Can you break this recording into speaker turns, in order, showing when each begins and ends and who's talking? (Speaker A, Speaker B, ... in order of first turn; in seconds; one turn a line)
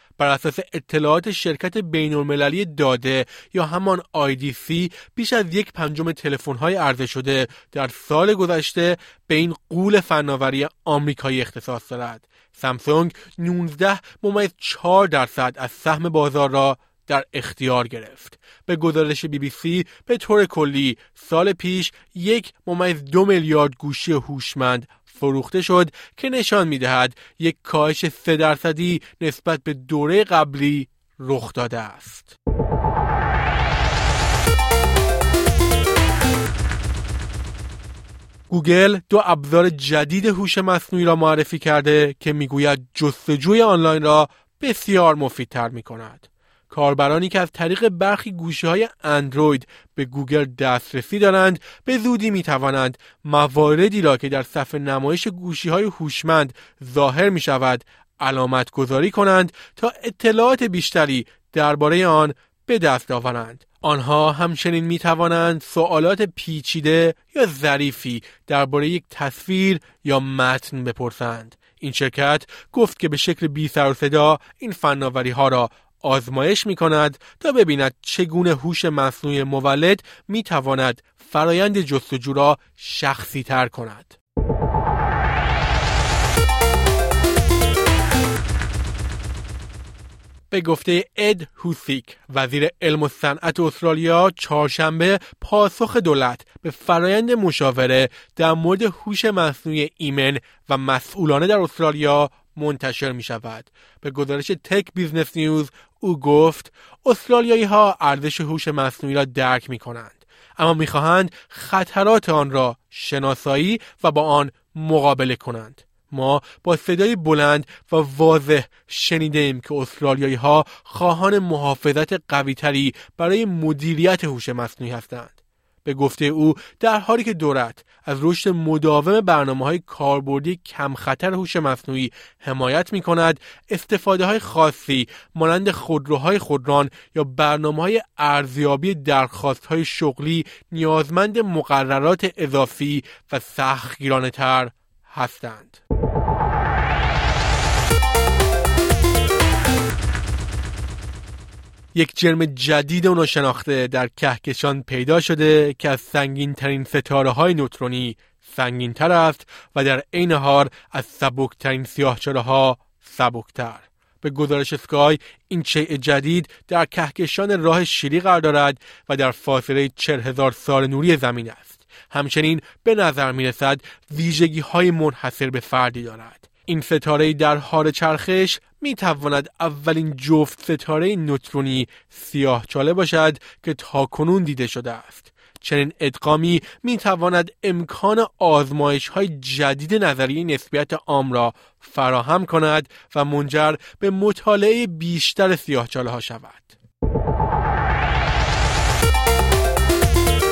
Speaker A: 0.2-32.4
Speaker A: 38.5-84.2
Speaker A: 90.5-145.8
Speaker A: 151.9-196.7